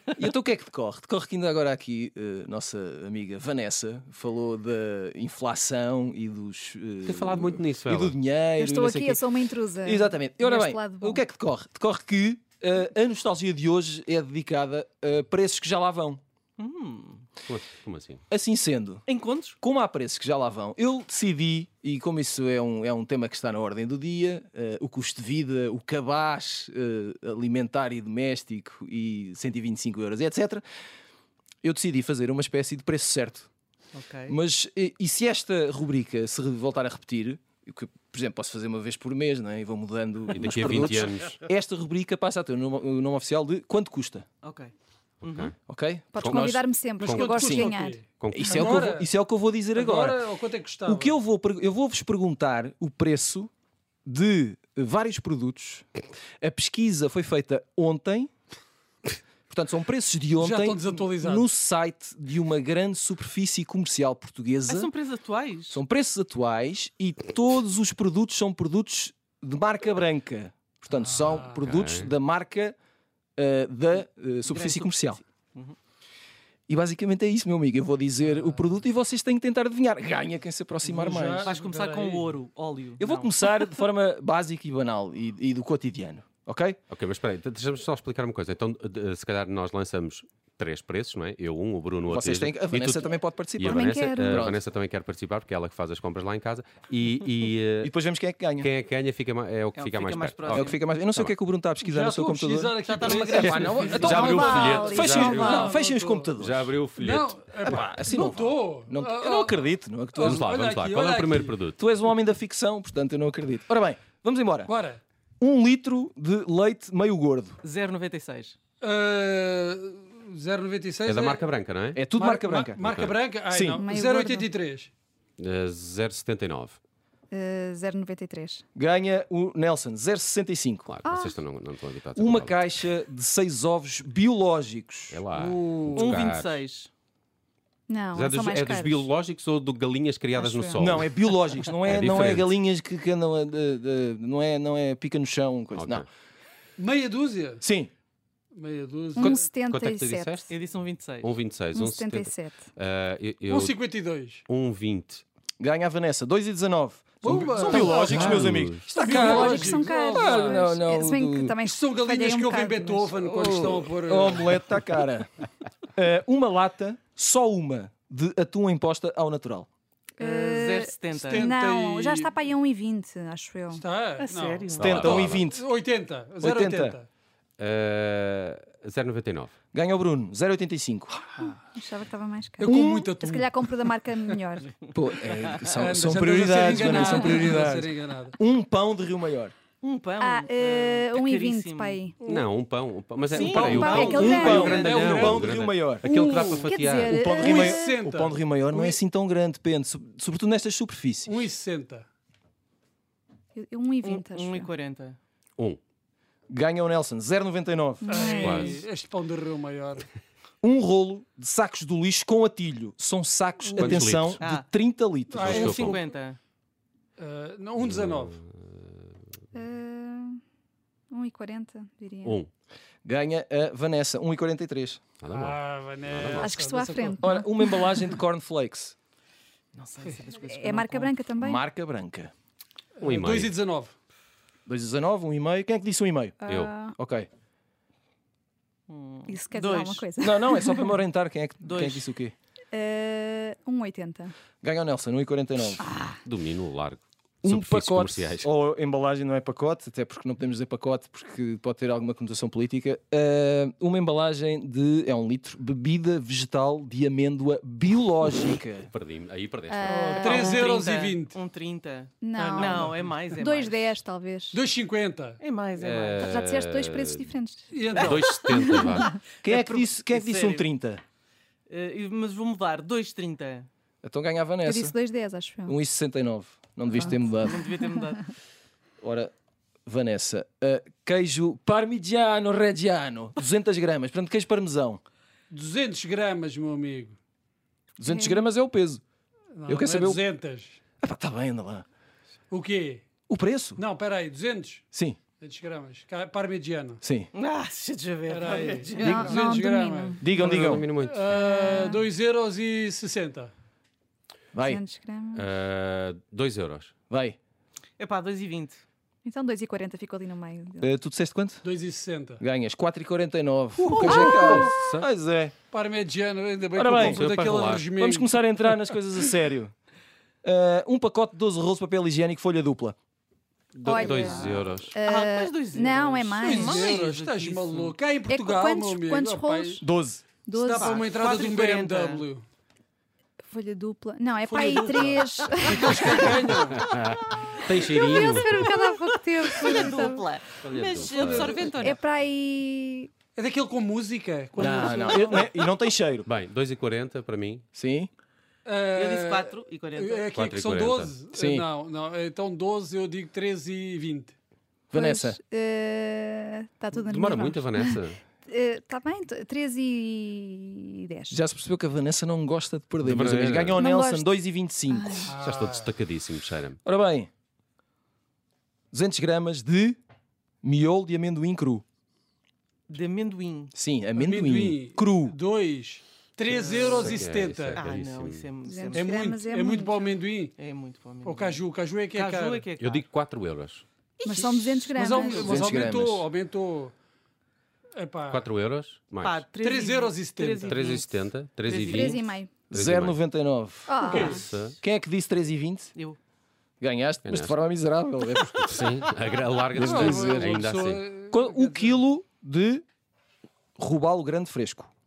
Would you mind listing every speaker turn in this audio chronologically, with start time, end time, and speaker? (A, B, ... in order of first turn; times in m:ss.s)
0:00.2-0:09.3 A
0:07.0-0:08.2 B
0:08.6-0:11.2 C
0:09.8-0:16.2 A
0:16.6-0:17.3 D
0:17.5-0:18.2 B
0:18.3-0:19.1 A
0:19.1-0:19.6 D
0:19.6-0:30.6 A
0:31.6-0:33.5 A
0:33.9-0:34.4 D
0:34.3-0:44.3 A
0:40.3-0:41.4 B
0:44.4-0:45.5 D
0:45.2-0:45.5 B
0:45.7-0:46.6 A
0:46.1-0:48.0 C
0:46.2-0:47.4 B
0:47.0-0:49.1 E
0:47.3-0:47.7 A
0:48.2-0:48.8 B
0:48.3-0:50.2 A
0:49.7-0:51.2 E
0:50.8-0:53.5 A
0:54.1-0:55.9 A
0:56.4-0:58.3 A
0:59.5-1:04.9 A
1:00.4-1:01.5 E
1:04.7-1:05.8 D
1:05.7-1:12.8 A
1:11.0-1:11.7 E
1:11.6-1:12.1 B
1:13.4-1:15.2 A
1:14.5-1:15.8 D
1:16.7-1:21.5 A
1:18.3-1:18.6 E
1:20.8-1:22.4 E
1:21.4-1:23.5 D
1:23.0-1:26.8 A
1:26.9-1:37.9 B
1:32.1-1:34.6 A
1:33.6-1:34.5 C
1:37.8-1:38.7 A
1:38.6-1:41.3 B
1:39.8-1:40.8 D
1:40.5-1:46.7 A
1:41.8-1:46.3 E
1:42.9-1:45.1 D
1:43.3-1:45.7 B
1:44.2-1:45.8 C
1:46.4-1:47.4 B
1:47.0-1:51.6 E
1:47.6-1:50.5 A
1:50.2-1:51.8 B
1:51.8-1:54.7 A
1:54.7-1:55.0 E
1:55.4-1:57.6 A
1:57.6-1:58.6 D
1:58.8-2:01.5 E
2:01.0-2:02.0 B
2:01.9-2:02.9 A
2:02.1-2:04.9 E
2:02.8-2:03.2 B
2:03.5-2:03.8 A
2:03.8-2:04.5 C
2:05.4-2:06.8 B
2:07.3-2:08.6 C
2:08.8-2:10.9 A
2:10.9-2:12.6 B
2:11.0-2:11.4 C
2:12.2-2:15.2 A
2:15.1-2:16.6 B
2:15.3-2:16.9 D
2:17.9-2:19.1 C
2:18.2-2:22.5 B
2:20.4-2:21.0 C
2:20.8-2:26.1 A
2:25.7-2:26.1 B
2:26.8-2:27.6 E
2:27.6-2:27.9 A
2:28.5-2:29.5 E
2:29.2-2:30.5 C
2:29.6-2:30.6 B
2:30.5-2:31.3 D
2:31.2-2:33.8 B
2:31.7-2:32.7 C
2:33.5-2:34.4 E
2:34.5-2:35.2 B
2:35.6-2:41.6 A
2:37.2-2:40.7 E
2:37.5-2:38.5 D
2:38.0-2:39.0 B
2:39.0-2:43.1 C
2:41.6-2:44.8 E
2:43.2-2:45.3 A
2:46.0-2:49.7 A
2:50.2-2:53.8 C
2:50.2-2:51.5 D
2:51.2-2:52.3 E
2:53.7-2:54.7 E
2:54.2-2:55.4 D
2:54.8-2:55.5 B
2:54.8-2:55.6 A
2:55.4-2:57.1 E
2:56.4-2:57.0 A
2:57.6-2:59.5 B
2:59.7-3:01.1 A
3:01.4-3:04.7 C
3:02.6-3:04.4 E
3:02.7-3:03.1 A
3:04.9-3:09.5 A
3:05.7-3:08.4 E
3:06.8-3:07.4 C
3:06.8-3:07.2 D
3:09.8-3:12.0 D
3:10.2-3:12.2 C
3:12.2-3:12.5 E
3:12.2-3:17.3 B
3:13.3-3:15.5 D
3:13.4-3:14.8 C
3:13.5-3:13.8 E
3:14.0-3:16.0 A
3:14.4-3:15.5 E
3:16.0-3:18.0 C
3:16.2-3:16.7 E
3:17.0-3:21.4 A
3:17.3-3:19.0 E
3:21.3-3:22.1 E
3:23.6-3:24.7 C
3:24.0-3:25.2 D
3:26.5-3:28.3 A
3:28.0-3:28.8 C
3:28.1-3:30.1 E
3:28.4-3:28.8 B
3:30.6-3:35.9 A
3:33.8-3:34.4 B
3:33.8-3:34.7 D
3:35.3-3:36.0 E
3:35.4-3:36.4 D
3:35.4-3:36.0 B
3:37.2-3:38.4 E
3:37.8-3:38.8 B
3:39.5-3:40.4 C
3:41.1-3:42.4 C
3:42.2-3:42.5 B
3:43.0-3:45.0 A
3:45.2-3:46.5 B
3:45.3-3:47.2 E
3:46.4-3:48.1 C
3:47.2-3:49.0 A
3:49.7-3:51.2 D
3:50.4-3:51.6 C
3:51.4-3:52.3 A
3:53.0-3:53.9 E
3:53.0-3:53.5 B
3:54.7-3:56.4 A
3:56.4-3:57.0 C
3:56.5-3:56.7 B
3:57.0-3:57.3 A
3:58.9-4:00.1 D
3:59.3-4:00.9 C
4:00.2-4:02.3 A
4:01.6-4:02.1 D
4:02.7-4:04.3 C
4:04.6-4:05.8 A
4:05.8-4:06.2 D
4:06.2-4:08.5 B
4:07.4-4:18.9 A
4:18.8-4:20.0 B
4:19.7-4:20.7 C
4:19.9-4:21.4 E
4:19.9-4:24.0 D
4:22.2-4:24.6 C
4:22.4-4:23.4 E
4:24.5-4:25.4 E
4:25.4-4:26.3 D
4:25.8-4:27.3 B
4:26.2-4:29.2 C
4:27.7-4:28.3 E
4:28.0-4:28.9 D
4:28.0-4:29.2 B
4:29.4-4:31.0 A
4:29.4-4:30.7 D
4:31.7-4:33.7 D
4:34.0-4:35.0 A
4:34.6-4:35.8 C
4:35.6-4:37.6 A
4:37.0-4:38.3 D
4:39.0-4:39.3 A
4:39.9-4:45.0 A
4:45.5-4:47.2 E
4:48.0-4:49.0 A
4:48.1-4:48.4 C
4:49.5-4:50.8 E
4:49.7-4:50.2 A
4:51.0-4:51.8 A
4:52.5-4:53.0 E
4:53.3-4:53.8 A
4:53.8-4:54.8 E
4:54.9-4:55.2 A
4:55.4-4:57.0 E
4:57.0-4:57.3 A
4:57.3-4:59.4 D
4:58.3-5:03.5 E
4:59.0-5:00.2 C
4:59.0-4:59.4 A
5:00.2-5:00.9 A
5:00.3-5:01.3 B
5:01.3-5:02.0 C
5:04.5-5:04.8 A
5:04.6-5:05.5 C
5:05.3-5:06.9 B
5:07.1-5:07.4 A
5:08.0-5:08.8 D
5:09.2-5:10.9 C
5:10.8-5:11.7 A
5:11.6-5:12.4 E
5:12.4-5:15.5 A
5:13.8-5:15.1 B
5:13.9-5:14.7 D
5:15.7-5:18.4 E
5:16.8-5:17.3 A
5:17.0-5:17.9 B
5:18.0-5:19.7 A
5:20.4-5:23.0 A
5:23.7-5:25.0 B
5:23.8-5:26.9 C
5:23.9-5:28.0 D
5:26.4-5:29.8 E
5:28.3-5:29.8 C
5:29.8-5:30.2 A
5:30.4-5:31.0 C
5:30.5-5:32.4 E
5:30.6-5:32.3 D
5:33.4-5:36.3 C
5:34.5-5:36.8 D
5:34.6-5:35.0 E
5:35.7-5:36.9 E
5:36.3-5:38.5 B
5:37.8-5:40.3 C
5:38.1-5:38.4 D
5:39.4-5:42.0 D
5:40.6-5:41.7 B
5:41.2-5:41.7 E
5:41.6-5:43.1 C
5:43.4-5:45.6 E
5:44.6-5:46.3 A
5:46.3-5:47.6 B
5:47.7-5:48.1 A
5:48.6-5:54.3 E
5:48.9-5:50.4 D
5:50.3-5:51.1 B
5:51.3-5:51.7 A
5:54.9-5:55.4 A
5:54.9-6:01.4 C
5:56.9-5:58.2 B
6:01.3-6:05.3 A
6:03.0-6:03.8 B
6:03.8-6:04.3 C
6:04.9-6:05.3 C
6:05.3-6:05.9 E
6:05.4-6:06.8 B
6:06.8-6:07.3 A
6:08.9-6:10.0 A
6:10.6-6:11.8 A
6:12.9-6:13.7 D
6:13.7-6:15.4 A
6:14.2-6:17.9 E
6:16.4-6:19.1 D
6:16.8-6:18.5 B
6:18.6-6:20.2 C
6:18.9-6:20.6 E
6:20.6-6:21.6 D
6:21.2-6:22.7 E
6:22.1-6:23.1 D
6:22.8-6:23.8 B
6:24.2-6:25.6 D
6:24.2-6:25.7 C
6:24.7-6:26.9 E
6:25.3-6:26.3 A
6:27.9-6:28.5 E
6:28.3-6:29.5 B
6:29.2-6:31.1 D
6:29.6-6:30.8 E
6:30.7-6:33.2 B
6:31.6-6:32.4 D
6:31.9-6:32.5 C
6:32.7-6:36.0 A
6:33.9-6:34.4 C
6:34.1-6:34.4 E
6:34.2-6:34.8 B
6:34.2-6:34.7 D
6:36.8-6:38.6 A
6:37.2-6:37.6 B
6:38.3-6:41.0 B
6:39.7-6:42.0 E
6:39.8-6:40.6 A
6:41.3-6:42.8 A
6:43.8-6:44.9 A